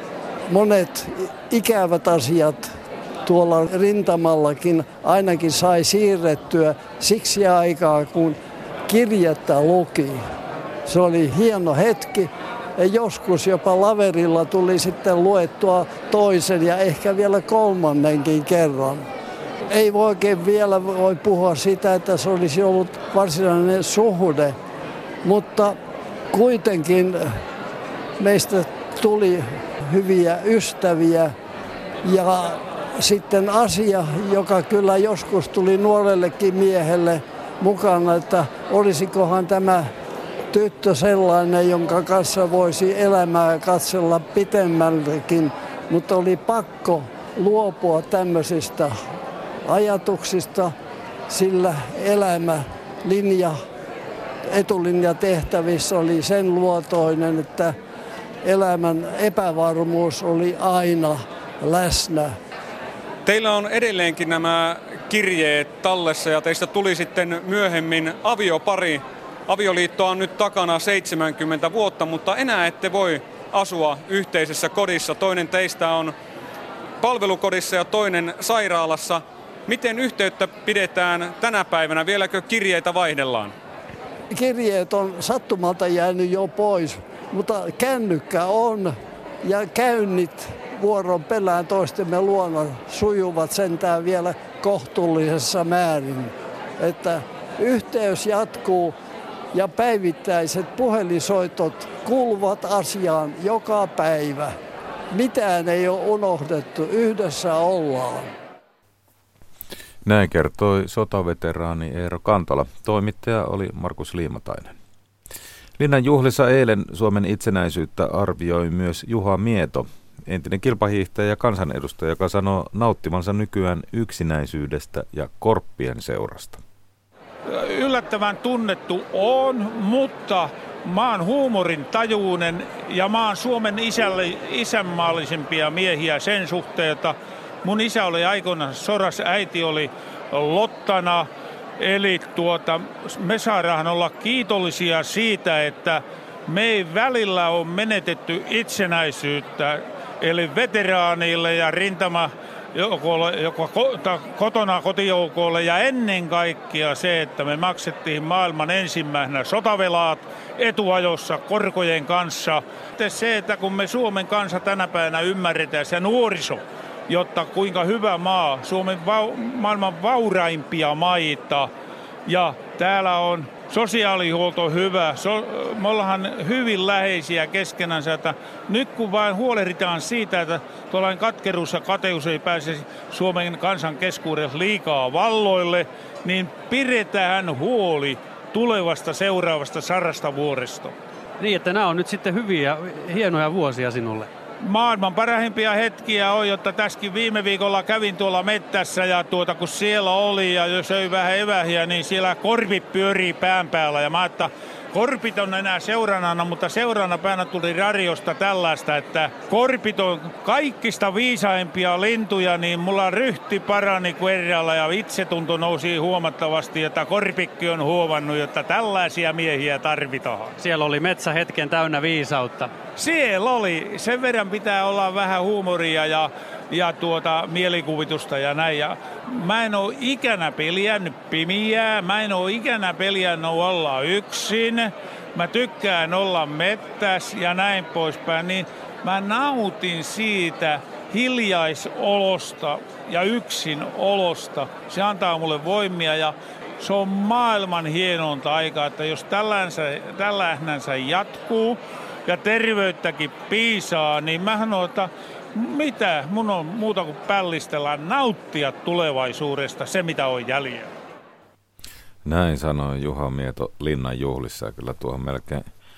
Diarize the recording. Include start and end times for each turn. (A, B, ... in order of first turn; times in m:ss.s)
0:00.5-0:02.7 A
0:03.2-0:10.2 A
0:10.8-0:19.1 A
0:19.7-0:24.5 A
0:25.2-0:25.8 A
0:26.3-0:27.4 A
0:28.2-0:31.3 A
0:32.0-0:39.9 A
0:40.5-0:49.0 A
0:49.6-0:50.7 A
0:51.3-0:53.6 A
0:54.5-0:57.7 A
0:58.4-1:02.3 A
1:03.2-1:16.2 B
1:17.0-1:23.5 B
1:24.3-1:39.0 A
1:39.5-1:44.5 A
1:45.1-1:48.3 A
1:50.0-1:54.7 C
1:55.8-2:06.6 C
2:07.5-2:21.3 D
2:21.8-2:51.7 D
2:52.3-3:10.9 D
3:11.4-3:14.3 E
3:14.6-3:40.6 D
3:40.6-3:42.7 E
3:43.0-4:20.9 D
4:22.2-4:25.6 C